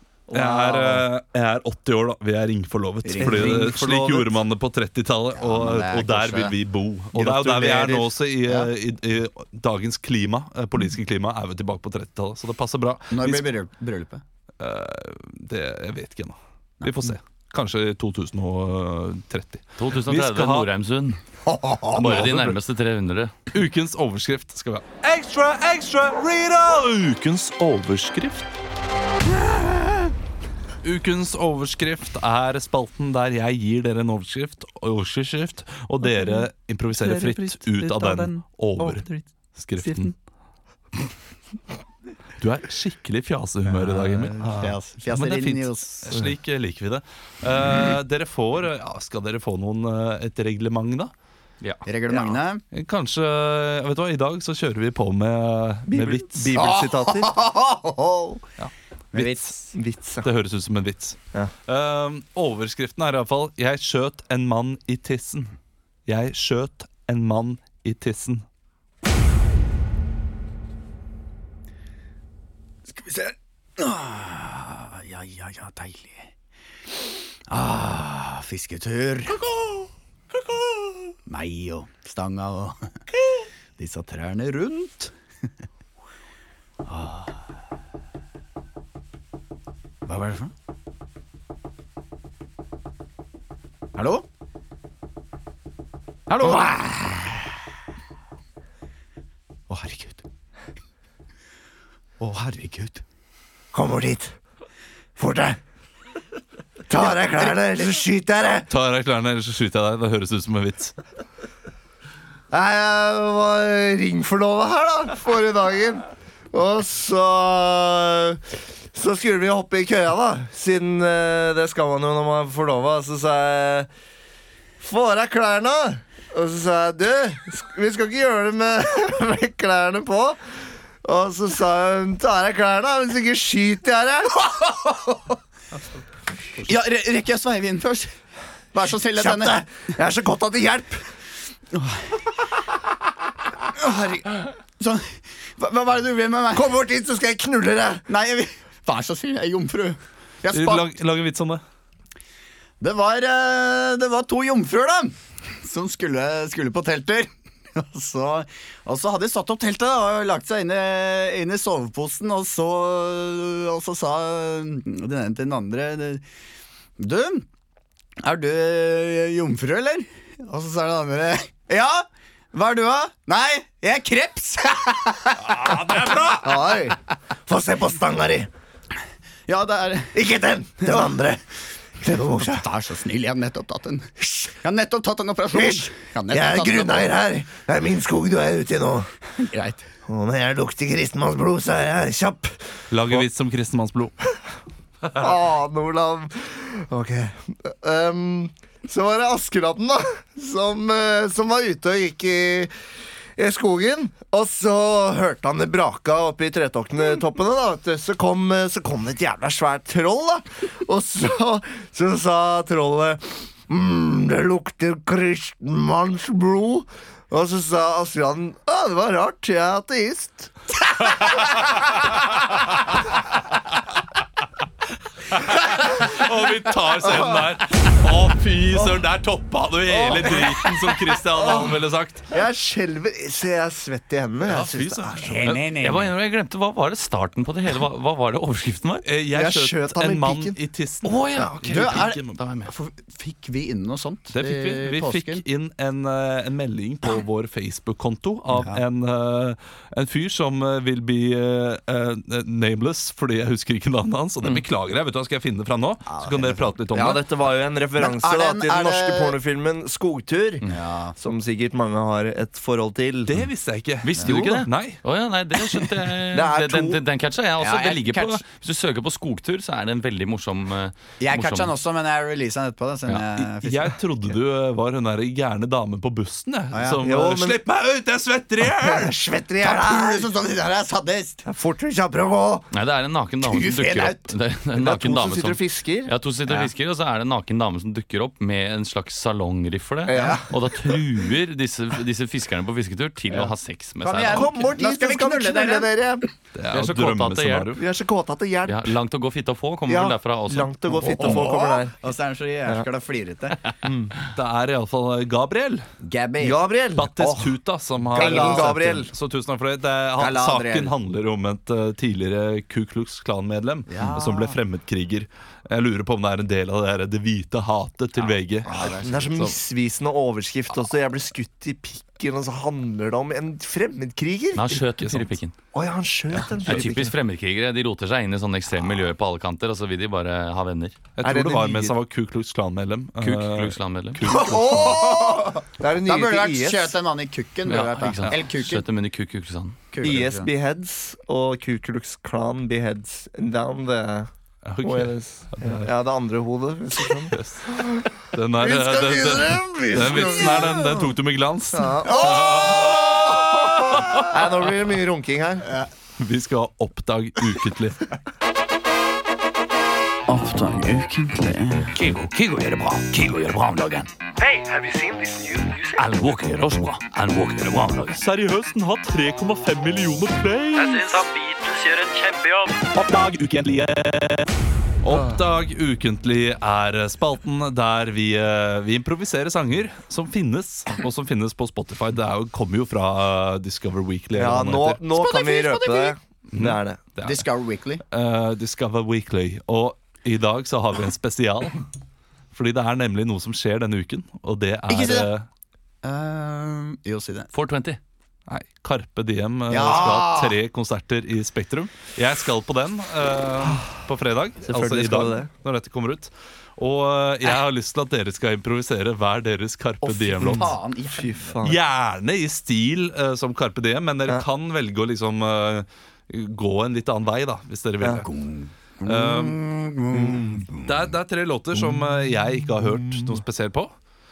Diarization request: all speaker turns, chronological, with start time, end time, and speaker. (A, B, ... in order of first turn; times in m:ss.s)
0:00.3-0:01.0 A
0:00.3-0:13.5 B
0:00.5-0:00.9 C
0:03.0-0:03.8 C
0:03.2-0:04.3 A
0:05.3-0:06.5 C
0:07.1-0:08.1 A
0:13.1-0:14.2 C
0:14.6-0:20.7 B
0:16.8-0:17.1 C
0:19.8-0:21.2 D
0:21.4-0:22.1 C
0:21.9-0:22.6 B
0:21.9-0:23.4 D
0:23.5-0:28.5 B
0:30.8-0:40.1 B
0:42.4-0:51.1 B
0:43.7-0:46.1 C
0:44.4-0:44.7 A
0:47.7-0:48.0 C
0:51.8-0:52.6 C
0:52.7-0:56.6 B
0:55.9-0:57.3 A
0:56.5-0:58.4 C
0:58.6-0:59.3 B
0:59.1-0:59.7 C
0:59.2-1:00.3 A
1:00.2-1:05.5 B
1:06.0-1:08.4 B
1:12.9-1:16.3 C
1:17.5-1:19.8 C
1:21.2-1:23.0 C
1:23.8-1:25.1 C
1:26.8-1:27.4 C
1:30.0-1:30.5 C
1:33.9-1:34.2 C
1:36.3-1:37.5 C
1:39.7-1:40.2 C
1:42.2-1:43.0 C
1:43.7-1:44.3 A
1:45.2-1:45.6 A
1:46.9-1:48.7 A
1:48.7-1:50.9 B
1:52.5-2:03.9 A
2:04.8-2:10.4 A
2:11.0-2:14.3 A
2:14.4-2:15.2 C
2:16.6-2:18.1 C
2:18.7-2:19.6 C
2:19.1-2:21.0 A
2:21.7-2:22.0 C
2:23.8-2:26.7 C
2:26.5-2:28.0 A
2:28.1-2:30.9 C
2:30.5-2:31.6 B
2:32.8-2:46.2 C
2:47.0-2:47.4 C
2:48.2-2:55.8 C
2:55.5-2:56.4 B
2:56.3-2:58.5 A
2:59.5-3:00.2 C
3:00.1-3:01.4 A
3:02.0-3:02.7 A
3:02.3-3:07.1 C
3:05.5-3:09.1 A
3:09.4-3:09.8 C
3:10.0-3:12.6 A
3:12.9-3:14.1 B
3:15.1-3:22.7 A
3:23.4-3:40.5 A
3:45.4-3:52.2 B
3:47.0-3:47.3 A
3:49.9-3:50.5 A
3:51.4-3:51.7 A
3:52.3-3:55.4 A
3:54.4-3:55.4 B
3:55.2-3:56.1 C
3:55.4-3:59.0 D
3:59.0-4:02.4 B
3:59.3-4:00.6 A
4:01.0-4:02.7 D
4:01.6-4:05.4 C
4:04.3-4:17.2 B
4:08.5-4:08.8 C
4:16.1-4:16.7 C
4:16.9-4:23.4 A
4:18.0-4:19.4 C
4:20.6-4:21.2 C
4:23.2-4:25.0 B
4:24.0-4:31.7 D
4:26.3-4:27.0 A
4:27.6-4:28.4 C
4:31.2-4:34.0 C
4:33.3-4:39.1 B
4:36.7-4:37.0 C
4:37.0-4:37.6 A
4:38.8-4:40.3 A
4:39.6-4:41.4 C
4:41.4-4:42.7 A
4:42.7-4:54.5 D
4:43.4-4:44.3 C
4:44.7-4:46.1 A
4:50.0-4:50.5 A
4:54.0-4:56.2 C
4:54.2-4:56.2 A
4:56.5-4:57.8 B
4:56.7-4:57.8 D
4:57.8-4:59.0 A
4:58.6-5:01.4 D
4:59.9-5:01.9 A
5:00.9-5:03.6 C
5:03.8-5:04.1 A
5:04.4-5:05.8 B
5:06.0-5:06.7 C
5:06.4-5:07.6 A
5:07.0-5:18.9 B
5:08.1-5:09.1 A
5:08.1-5:08.9 C
5:10.2-5:10.9 C
5:13.9-5:14.6 C
5:18.6-5:19.5 C
5:19.0-5:24.8 A
5:24.5-5:25.5 D
5:25.0-5:25.3 B
5:25.7-5:27.2 A
5:26.4-5:26.8 B
5:26.6-5:31.0 D
5:31.2-5:35.0 B
5:31.2-5:31.9 A
5:33.2-5:34.5 D
5:34.3-5:37.0 A
5:34.3-5:38.8 C
5:37.6-5:39.8 D
5:39.9-5:40.5 C
5:40.0-5:44.3 A
5:44.6-5:45.9 B
5:44.8-5:51.0 A
5:47.3-5:54.3 B
5:51.7-5:55.7 A
5:52.1-5:53.0 C
5:56.2-5:58.0 B
6:00.3-6:01.9 C
6:02.1-6:07.9 E
6:08.2-6:11.2 B
6:10.7-6:12.9 E
6:12.9-6:14.5 B
6:15.0-6:25.0 B
6:15.1-6:15.4 A
6:24.3-6:27.0 A
6:25.1-6:26.1 C
6:26.5-6:27.4 B
6:27.2-6:28.0 C
6:28.1-6:31.8 B
6:32.5-6:35.4 B
6:34.9-6:35.3 C
6:36.0-6:37.5 C
6:37.5-6:38.0 D
6:38.5-6:50.7 B
6:39.7-6:40.6 C
6:44.6-6:45.5 A
6:50.0-6:51.6 C
6:50.4-6:51.8 A
6:51.6-6:58.3 B
6:58.0-6:58.2 A
6:58.2-7:01.0 C
6:59.0-6:59.6 B
7:00.1-7:00.7 A
7:00.8-7:03.9 B
7:01.8-7:03.4 A